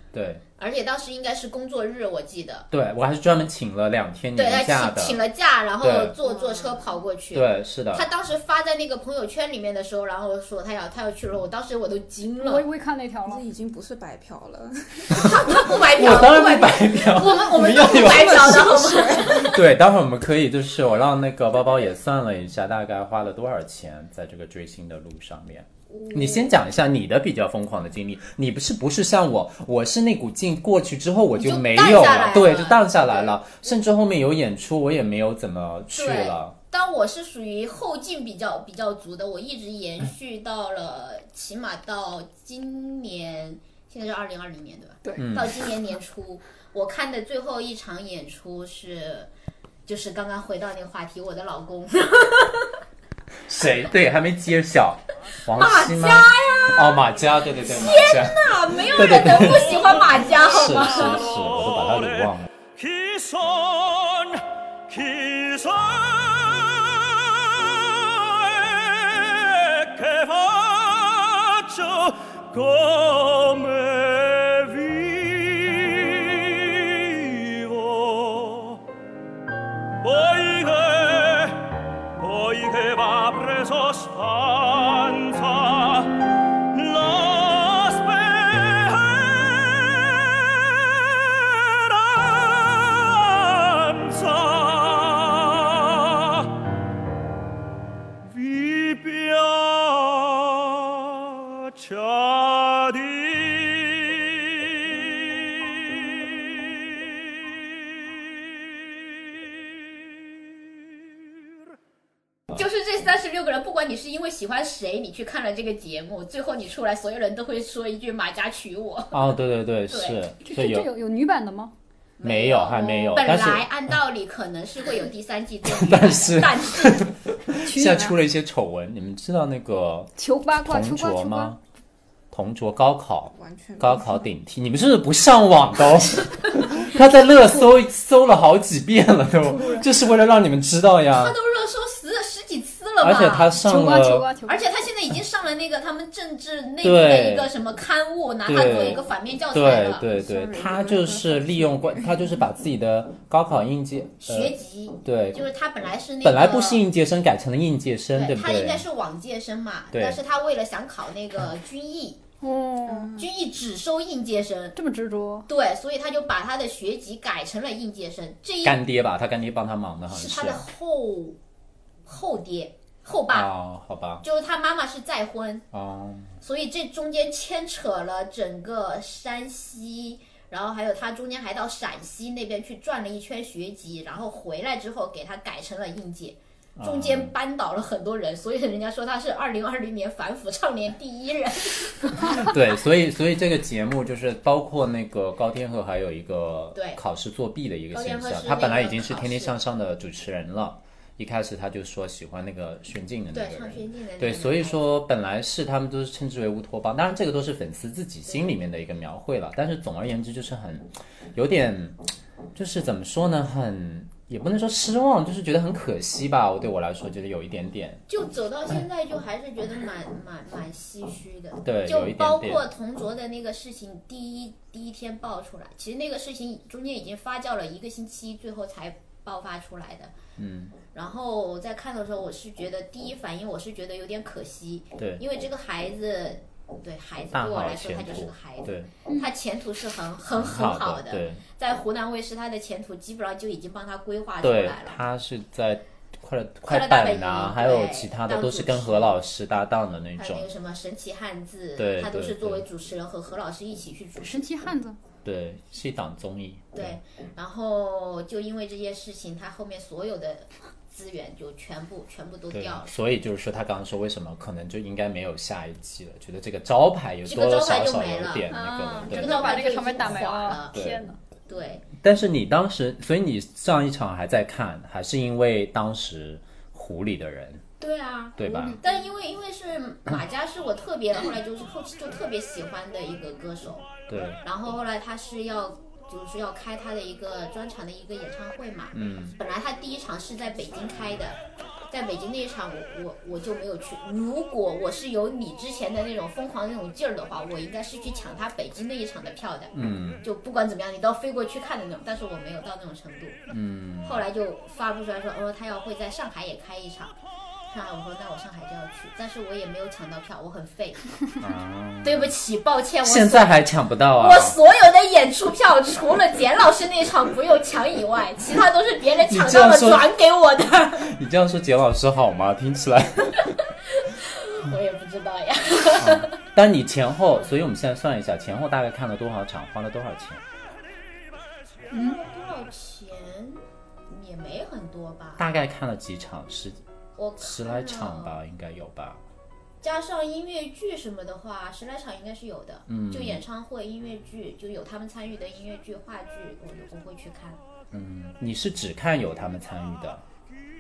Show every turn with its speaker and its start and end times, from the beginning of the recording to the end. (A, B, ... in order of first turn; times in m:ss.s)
0:00.1-0:00.4 A
0:00.6-0:02.7 B
0:02.7-0:05.2 A
0:04.4-0:12.6 B
0:05.8-0:06.1 A
0:06.2-0:06.8 C
0:07.3-0:08.0 A
0:12.4-0:13.4 D
0:13.2-0:15.3 C
0:15.1-0:19.6 B
0:15.5-0:36.5 A
0:18.5-0:19.4 C
0:25.9-0:26.6 B
0:31.4-0:33.4 B
0:35.9-0:49.3 B
0:45.2-0:45.6 A
0:49.8-0:52.7 B
0:53.5-1:02.5 A
0:55.5-1:01.2 B
0:59.3-1:18.8 E
1:20.0-1:36.7 E
1:38.2-1:51.6 E
1:52.5-1:59.2 B
1:59.1-2:00.9 A
1:59.9-2:00.2 B
2:00.4-2:01.7 D
2:02.2-2:07.1 B
2:02.2-2:03.7 A
2:05.6-2:11.6 A
2:07.6-2:08.2 D
2:10.2-2:11.5 D
2:12.3-2:21.4 A
2:13.3-2:14.3 C
2:19.5-2:19.9 D
2:21.1-2:23.6 B
2:23.0-2:24.3 A
2:23.6-2:24.7 D
2:24.4-2:30.1 B
2:26.8-2:27.5 A
2:28.4-2:35.4 A
2:30.1-2:32.3 C
2:34.2-2:36.8 B
2:36.2-2:38.8 A
2:38.1-2:42.2 B
2:39.9-2:40.2 A
2:42.4-2:43.2 D
2:43.2-2:44.7 B
2:44.8-2:45.5 D
2:45.5-2:48.8 B
2:48.6-2:50.6 A
2:50.1-2:51.4 B
2:52.0-2:53.5 B
2:53.3-2:54.2 A
2:54.2-2:55.6 B
2:55.7-2:56.3 A
2:56.4-3:12.5 B
3:06.8-3:07.3 A
3:12.2-3:32.0 A
3:16.7-3:17.0 B
3:17.9-3:19.6 B
3:23.3-3:24.9 B
3:28.3-3:28.5 B
3:32.5-3:38.0 A
3:38.1-3:50.1 B
3:41.6-3:42.6 A
3:50.4-3:50.7 A
3:50.9-4:05.0 B
3:55.0-3:55.2 A
3:57.3-3:58.9 A
3:59.1-3:59.3 D
4:00.3-4:01.4 A
4:04.4-4:10.4 A
4:06.7-4:09.2 B
4:10.2-4:14.7 B
4:11.8-4:12.6 A
4:14.2-4:15.0 D
4:15.2-4:17.0 A
4:16.7-4:22.9 B
4:22.5-4:29.6 A
4:27.2-4:28.5 B
4:28.5-4:31.2 D
4:29.1-4:30.8 B
4:30.7-4:31.0 A
4:31.5-4:31.8 B
4:32.0-4:37.6 A
4:37.8-4:43.9 B
4:38.4-4:38.8 A
4:38.4-4:39.0 D
4:44.1-4:44.4 A
4:44.4-4:51.4 B
4:48.9-4:49.4 A
4:51.9-5:03.4 B
4:59.7-5:00.2 A
5:03.5-5:04.2 A
5:04.0-5:07.1 B
5:07.7-5:11.0 B
5:11.4-5:12.3 A
5:12.0-5:13.6 B
5:13.0-5:14.6 A
5:14.2-5:21.1 B
5:19.2-5:20.1 A
5:21.0-5:23.5 A
5:23.8-5:26.3 B
5:26.0-5:30.4 A
5:31.9-5:35.5 B
5:31.9-5:32.2 D
5:35.4-5:36.8 A
5:37.2-5:38.4 B
5:37.4-5:39.2 A
5:39.8-5:47.6 B
5:42.9-5:43.4 A
5:47.9-5:50.2 A